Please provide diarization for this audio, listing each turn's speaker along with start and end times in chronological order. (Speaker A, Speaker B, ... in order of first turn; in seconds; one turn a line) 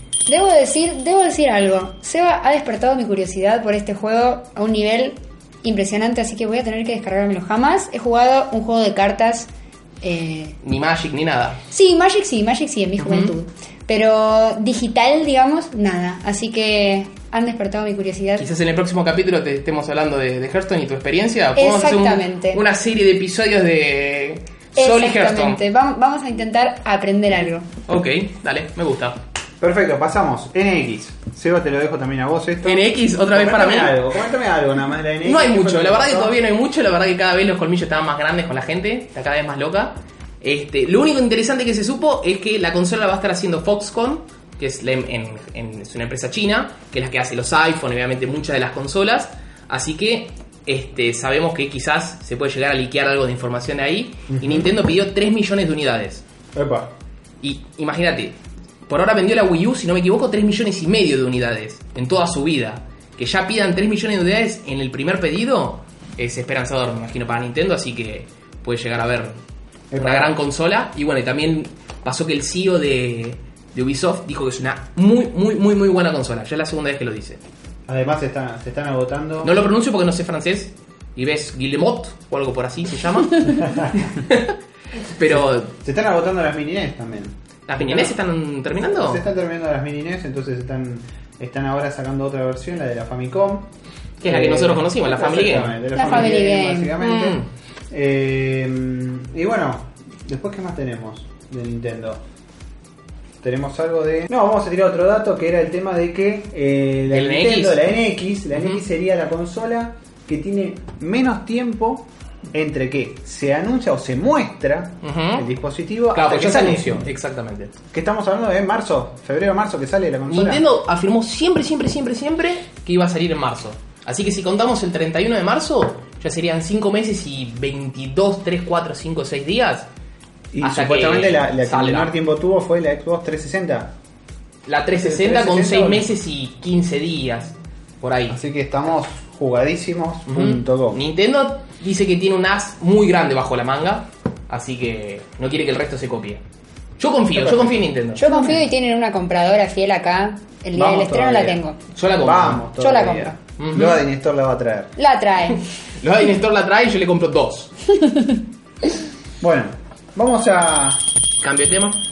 Speaker A: 0.3-9.5
Speaker A: 10.0-10.6
Speaker B: 10.6-11.6
Speaker A: 11.7-18.4
Speaker B: 13.0-13.3
Speaker B: 18.4-25.6
Speaker A: 21.6-22.6
Speaker A: 24.8-27.7
Speaker B: 27.9-29.2
Speaker C: 29.6-36.4
Speaker B: 32.6-34.0
Speaker B: 35.2-56.2
Speaker C: 54.3-54.7
Speaker C: 56.5-56.9
Speaker B: 57.4-58.3
Speaker B: 58.9-69.3
Speaker C: 69.9-70.3
Speaker B: 70.0-77.4
Speaker C: 77.9-79.5
Speaker B: 79.4-84.6
Speaker C: 83.5-84.0
Speaker B: 85.1-85.7
Speaker C: 85.3-88.2
Speaker B: 87.7-89.2
Speaker C: 88.9-93.7
Speaker B: 94.2-96.3
Speaker C: 94.2-102.2
Speaker A: 95.9-97.0
Speaker B: 97.0-97.5
Speaker C: 103.4-117.0
Speaker B: 107.1-107.8
Speaker B: 108.5-108.8
Speaker B: 115.0-115.5
Speaker B: 116.1-117.7
Speaker C: 117.9-120.6
Speaker B: 120.3-129.9
Speaker C: 130.5-133.9
Speaker B: 130.6-132.1
Speaker B: 134.7-138.4
Speaker C: 135.0-136.1
Speaker C: 138.3-141.0
Speaker B: 140.3-146.4
Speaker B: 147.0-148.3
Speaker C: 147.3-148.4
Speaker A: 148.2-151.8
Speaker C: 150.7-151.6
Speaker B: 151.9-152.7
Speaker C: 152.2-154.9
Speaker A: 152.8-153.3
Speaker B: 153.6-154.0
Speaker A: 155.0-155.6
Speaker B: 156.0-157.7
Speaker C: 159.4-161.0
Speaker B: 161.4-162.0